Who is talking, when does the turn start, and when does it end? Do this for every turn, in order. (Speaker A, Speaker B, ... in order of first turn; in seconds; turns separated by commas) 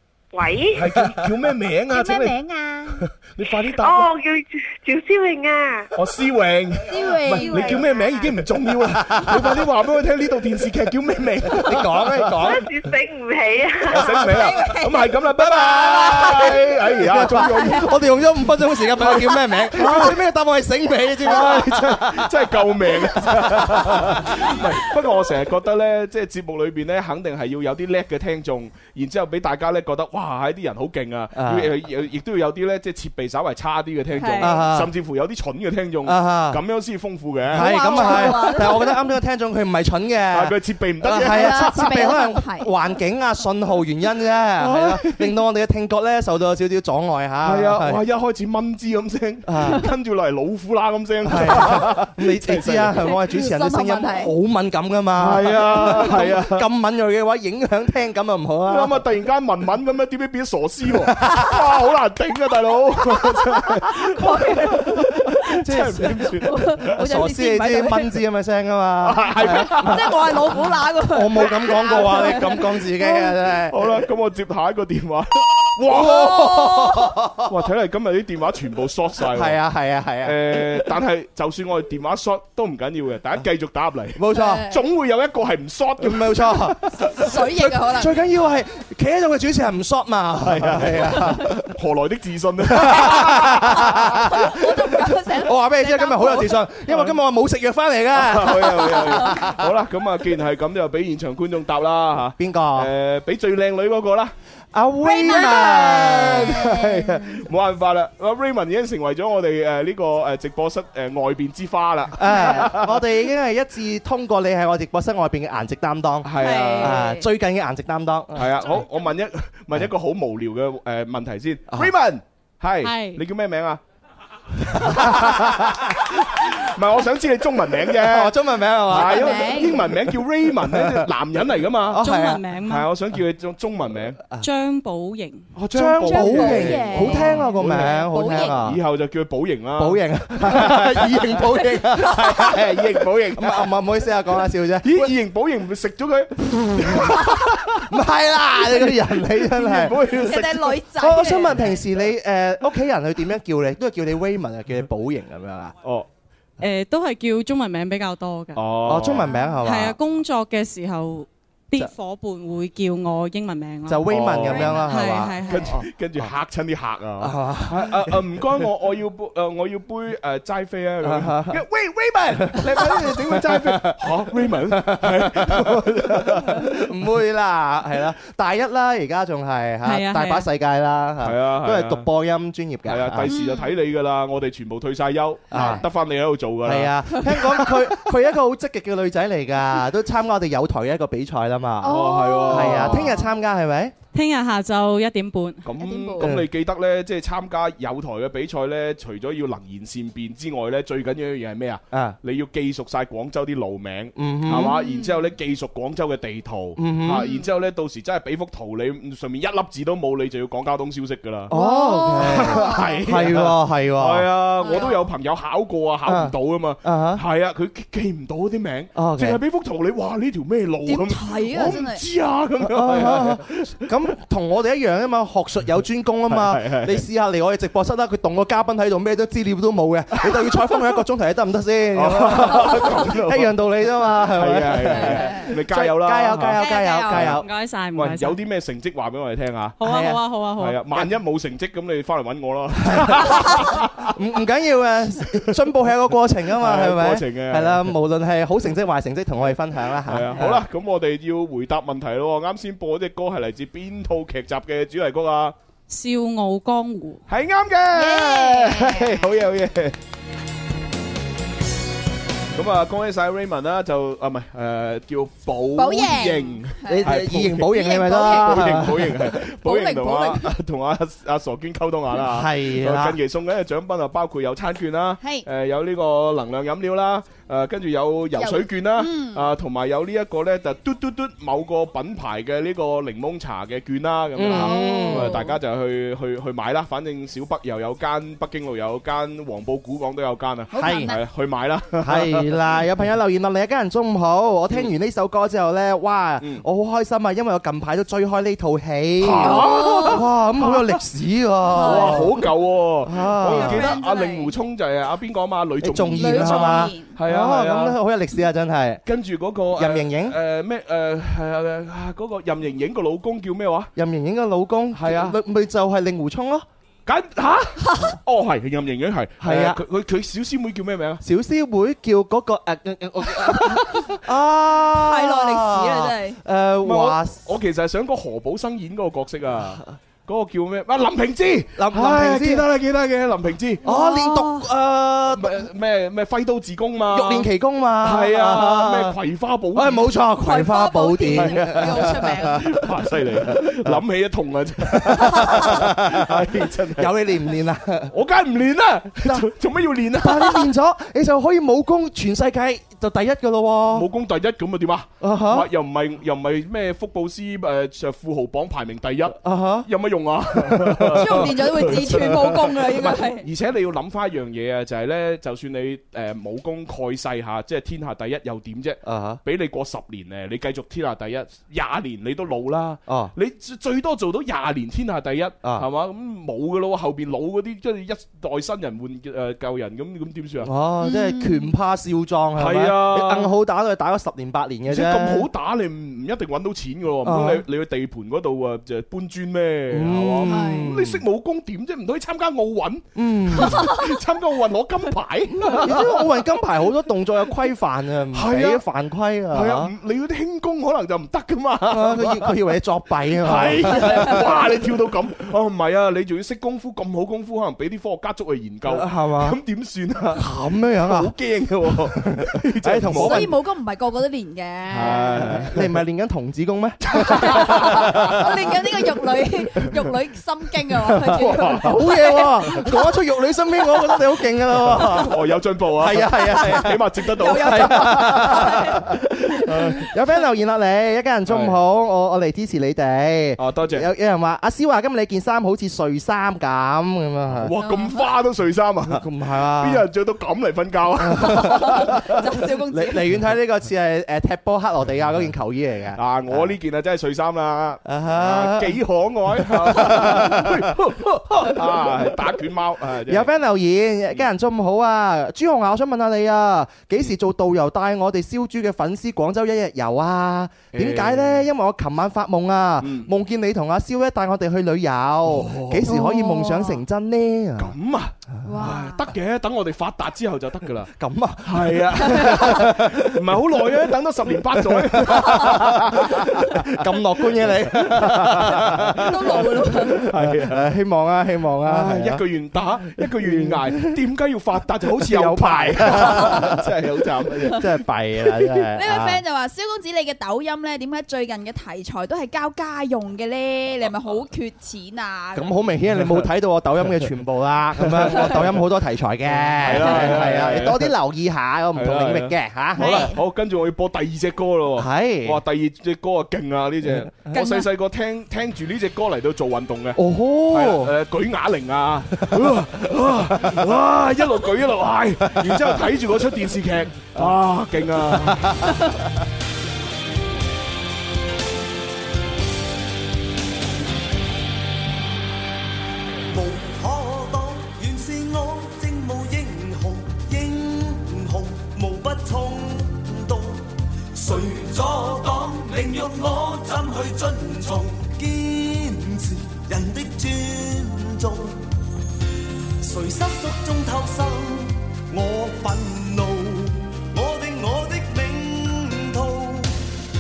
Speaker A: 0.3-0.9, Speaker B: 0.7-4.1, Speaker C: 1.9-3.0, Speaker A: 3.8-5.9, Speaker B: 6.0-12.6, Speaker C: 6.9-8.3, Speaker D: 8.8-9.7, Speaker D: 11.5-12.7, Speaker A: 12.4-14.4, Speaker B: 13.9-17.9, Speaker C: 14.3-16.6, Speaker D: 15.5-24.7, Speaker C: 17.4-17.8, Speaker B: 19.0-20.2, Speaker B: 21.2-38.7, Speaker D: 31.4-31.7, Speaker C: 34.1-34.6, Speaker D: 34.4-34.9, Speaker D: 36.0-36.6, Speaker D: 37.5-48.0, Speaker C: 37.6-39.1, Speaker B: 40.3-41.9, Speaker C: 41.1-42.7, Speaker B: 44.6-45.4, Speaker B: 47.4-53.1, Speaker D: 49.5-49.9, Speaker D: 51.2-59.0, Speaker C: 53.0-54.3, Speaker B: 55.2-56.7, Speaker B: 58.7-67.0, Speaker D: 61.0-61.6, Speaker C: 63.9-64.9, Speaker D: 65.6-66.4, Speaker C: 66.5-68.1, Speaker D: 67.0-70.4, Speaker B: 69.0-70.4, Speaker C: 69.5-73.2, Speaker D: 71.1-73.9, Speaker B: 73.7-79.6, Speaker D: 75.8-77.5, Speaker D: 79.3-80.9, Speaker B: 80.2-87.2, Speaker D: 84.2-84.7, Speaker C: 84.3-84.8, Speaker D: 86.0-91.7, Speaker C: 87.2-88.2, Speaker B: 90.4-94.4, Speaker D: 92.7-99.7, Speaker C: 94.3-96.6, Speaker B: 96.9-97.2, Speaker B: 98.1-104.3, Speaker D: 102.4-102.9, Speaker D: 104.7-107.2, Speaker C: 105.0-106.8, Speaker B: 105.8-113.0, Speaker D: 112.1-118.8, Speaker B: 116.2-117.1, Speaker C: 116.4-117.2, Speaker B: 118.3-123.8, Speaker E: 122.8-123.2, Speaker B: 124.6-132.0, Speaker D: 124.9-125.8, Speaker D: 128.0-131.1, Speaker C: 128.9-129.9, Speaker D: 131.9-132.4, Speaker E: 132.0-132.9, Speaker B: 132.6-134.2, Speaker E: 134.4-135.4, Speaker B: 135.6-143.8, Speaker D: 135.7-138.8, Speaker C: 136.0-138.7, Speaker D: 139.8-145.1, Speaker B: 144.8-147.9, Speaker D: 146.8-150.2, Speaker B: 148.6-150.7, Speaker C: 150.1-151.8, Speaker D: 151.0-155.8, Speaker E: 156.6-158.7, Speaker B: 158.6-159.3, Speaker D: 158.9-160.0, Speaker E: 159.5-164.1, Speaker D: 163.9-165.7, Speaker B: 164.1-164.9, Speaker E: 164.8-165.8, Speaker B: 165.5-176.8, Speaker D: 167.2-168.4, Speaker D: 171.0-171.6, Speaker D: 172.4-183.3, Speaker E: 179.8-180.5, Speaker B: 181.2-182.1, Speaker B: 182.9-187.8, Speaker C: 183.3-183.7, Speaker D: 185.5-185.8, Speaker C: 185.5-185.8, Speaker D: 186.6-193.9, Speaker C: 191.8-193.3, Speaker B: 191.8-193.2, Speaker E: 194.1-195.7, Speaker B: 195.7-211.5, Speaker C: 195.8-196.3, Speaker D: 196.2-196.5, Speaker D: 201.9-202.2, Speaker D: 204.2-204.8, Speaker C: 204.7-205.2, Speaker D: 206.8-207.3, Speaker D: 211.5-214.3, Speaker C: 211.5-213.0, Speaker B: 212.1-223.9, Speaker C: 214.6-215.1, Speaker D: 216.1-217.2, Speaker D: 218.9-219.4, Speaker C: 220.8-222.0, Speaker D: 222.6-237.4, Speaker B: 226.3-227.1, Speaker B: 230.2-231.0, Speaker B: 231.9-233.6, Speaker B: 234.1-237.4, Speaker C: 234.9-235.5, Speaker C: 236.5-237.3, Speaker E: 237.3-238.4, Speaker B: 237.9-239.8, Speaker E: 239.8-240.8, Speaker D: 239.8-240.2, Speaker B: 240.6-244.1, Speaker D: 242.8-250.6, Speaker B: 246.5-247.9, Speaker B: 250.1-255.6, Speaker E: 255.9-257.2, Speaker B: 257.3-260.0, Speaker C: 257.9-259.3, Speaker B: 262.6-292.8, Speaker C: 265.8-267.1, Speaker D: 266.9-269.4, Speaker C: 267.7-270.5, Speaker D: 272.2-273.2, Speaker C: 275.2-275.5, Speaker C: 278.4-279.5, Speaker D: 284.4-285.4, Speaker C: 284.5-285.6, Speaker C: 290.7-291.2, Speaker D: 290.8-291.1, Speaker D: 292.0-302.4, Speaker B: 299.2-301.0, Speaker C: 299.4-300.2, Speaker C: 301.7-302.4, Speaker B: 301.7-308.0, Speaker D: 303.0-303.9, Speaker C: 303.5-304.5, Speaker D: 305.8-309.0, Speaker C: 306.1-307.2, Speaker B: 309.1-313.9, Speaker D: 309.8-310.4, Speaker D: 314.0-316.7, Speaker B: 314.9-315.4, Speaker B: 317.1-321.2, Speaker C: 317.9-318.2, Speaker D: 319.4-319.8, Speaker D: 321.2-327.4, Speaker C: 324.9-326.4, Speaker B: 326.8-333.8, Speaker D: 331.8-332.7, Speaker D: 333.8-335.6, Speaker C: 333.9-334.7, Speaker B: 335.3-337.5, Speaker D: 337.1-339.2, Speaker B: 338.0-340.2, Speaker D: 339.7-342.8, Speaker C: 340.4-342.7, Speaker B: 341.3-347.2, Speaker D: 344.9-348.1, Speaker B: 348.1-350.7, Speaker D: 349.2-349.5, Speaker D: 350.2-354.1, Speaker B: 353.9-380.7, Speaker D: 355.2-355.7, Speaker D: 359.4-359.9, Speaker D: 360.5-361.5, Speaker C: 361.2-363.5, Speaker D: 369.0-369.4, Speaker D: 373.1-373.3, Speaker D: 380.6-385.5, Speaker C: 381.0-381.7, Speaker B: 382.6-383.5, Speaker B: 384.9-396.3, Speaker D: 387.2-387.6, Speaker D: 389.9-391.2, Speaker C: 390.4-390.9, Speaker D: 393.2-393.9, Speaker D: 395.6-399.9, Speaker B: 398.3-398.8, Speaker B: 399.5-402.6, Speaker D: 401.9-404.6, Speaker B: 403.3-410.4, Speaker D: 408.9-409.6, Speaker D: 410.3-411.3, Speaker B: 411.0-413.5, Speaker D: 412.0-413.6, Speaker C: 413.1-415.6, Speaker B: 414.9-416.0, Speaker D: 415.0-418.6, Speaker B: 417.1-418.4, Speaker C: 417.2-423.0, Speaker D: 421.1-425.4, Speaker B: 421.2-422.9, Speaker B: 424.7-430.1, Speaker D: 426.0-437.7, Speaker C: 427.3-429.0, Speaker B: 431.5-431.8, Speaker B: 433.6-434.1, Speaker B: 437.6-442.4, Speaker C: 437.8-438.3, Speaker D: 439.1-440.1, Speaker D: 441.2-442.2, Speaker C: 441.4-443.2, Speaker D: 442.9-446.7, Speaker B: 446.2-453.5, Speaker D: 448.1-449.0, Speaker D: 449.6-450.9, Speaker D: 451.5-452.2, Speaker D: 453.3-467.9, Speaker B: 460.9-461.7, Speaker B: 463.0-463.3, Speaker B: 465.5-466.2, Speaker C: 466.1-467.0, Speaker B: 467.8-471.1, Speaker C: 468.6-469.3, Speaker D: 471.2-473.6, Speaker B: 471.6-479.3, Speaker D: 474.7-482.4, Speaker C: 479.3-480.3, Speaker B: 480.2-480.9, Speaker B: 481.8-487.8, Speaker D: 483.0-484.1, Speaker D: 485.1-486.9, Speaker C: 486.3-486.7, Speaker D: 487.6-489.4, Speaker C: 488.9-495.7, Speaker D: 495.6-503.3, Speaker B: 496.2-496.5, Speaker B: 498.0-498.8, Speaker B: 499.6-501.1, Speaker C: 500.1-500.4, Speaker B: 501.9-518.9, Speaker C: 503.0-503.4, Speaker D: 505.0-505.6, Speaker C: 507.5-507.9, Speaker D: 510.2-511.1, Speaker D: 512.5-512.7, Speaker D: 513.5-513.8, Speaker D: 515.5-516.0, Speaker D: 518.3-519.1, Speaker F: 526.5-541.9, Speaker F: 543.0-549.9